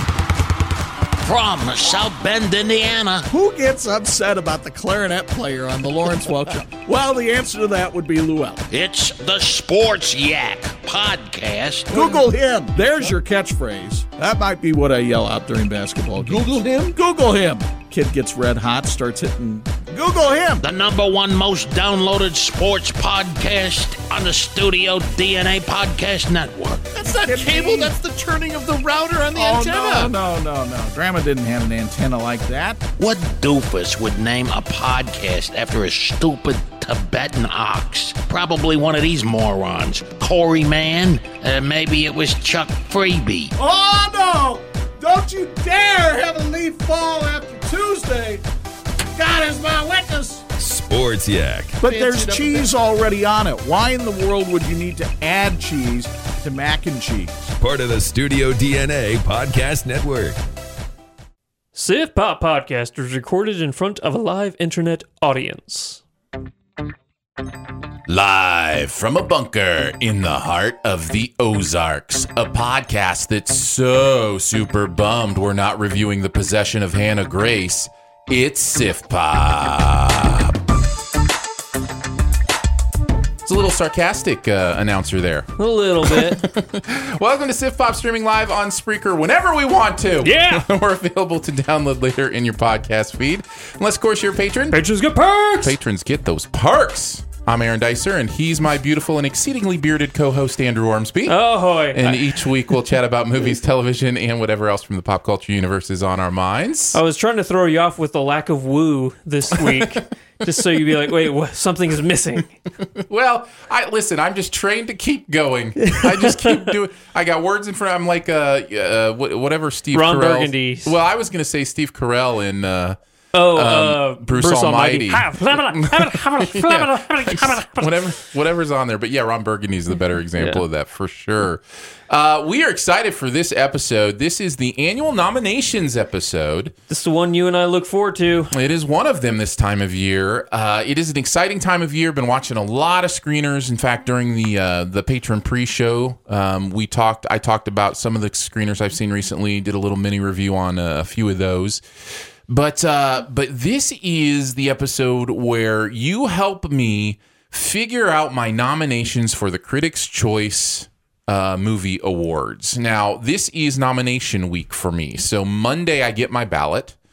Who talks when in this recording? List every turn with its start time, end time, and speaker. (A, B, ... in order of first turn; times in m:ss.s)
0:01.2-0:03.3 A
0:03.3-0:08.6 B
0:08.7-0:12.2 A
0:11.9-0:20.6 B
0:20.6-0:27.9 A
0:26.9-0:32.8 B
0:29.3-0:30.1 C
0:33.0-0:43.5 A
0:43.6-0:48.4 B
0:49.1-0:50.4 B
0:50.5-0:52.2 D
0:51.8-0:57.5 B
0:57.6-1:00.4 D
1:01.7-1:06.0 E
1:08.1-1:20.6 C
1:23.4-1:25.5 C
1:25.6-1:26.4 E
1:26.0-1:34.8 C
1:30.2-1:30.6 E
1:34.7-1:35.8 E
1:35.6-1:41.4 C
1:41.2-1:42.7 E
1:41.9-1:47.0 C
1:46.9-1:52.5 E
1:49.5-1:50.0 C
1:52.8-2:03.0 C
1:55.9-1:56.5 E
1:59.9-2:00.9 E
2:03.3-2:08.1 E
2:03.5-2:16.7 C
2:10.4-2:10.6 E
2:16.9-2:18.5 E
2:18.5-2:31.8 C
2:32.5-2:47.0 C